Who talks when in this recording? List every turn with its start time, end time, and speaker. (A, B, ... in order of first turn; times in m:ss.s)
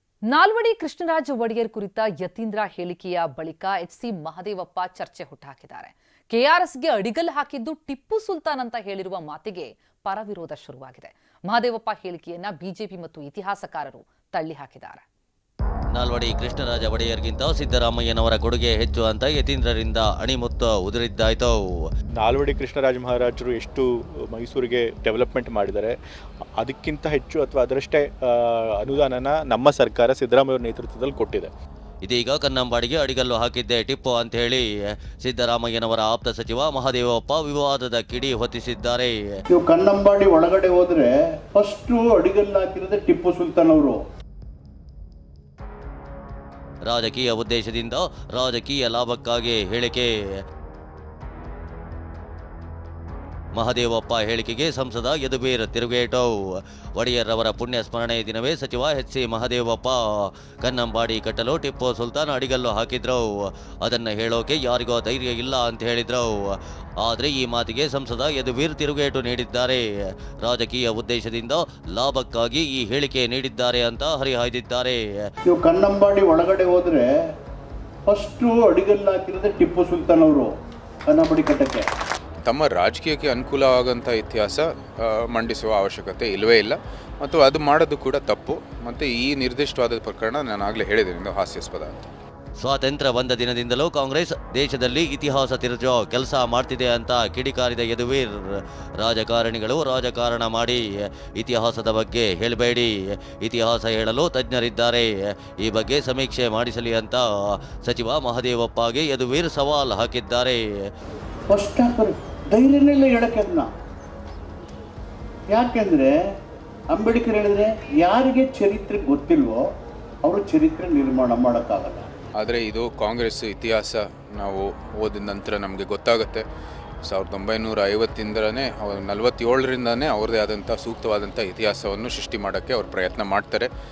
0:00.3-0:15.0 A
0:15.9-0:21.6 B
0:22.2-0:26.0 C
0:26.6-0:31.5 C
0:32.0-0:39.1 B
0:39.5-0:44.0 D
0:46.9-0:50.1 B
0:53.5-1:09.8 B
1:10.4-1:15.3 B
1:15.5-1:17.0 D
1:18.1-1:20.5 D
1:21.1-1:21.8 D
1:22.4-1:32.1 E
1:32.6-1:38.3 B
1:39.0-1:45.1 B
1:45.6-1:47.2 B
1:47.8-1:50.6 B
1:51.5-1:53.7 D
1:55.5-1:56.1 D
1:56.9-1:59.6 D
2:00.2-2:02.0 D
2:02.4-2:06.4 E
2:07.0-2:13.7 E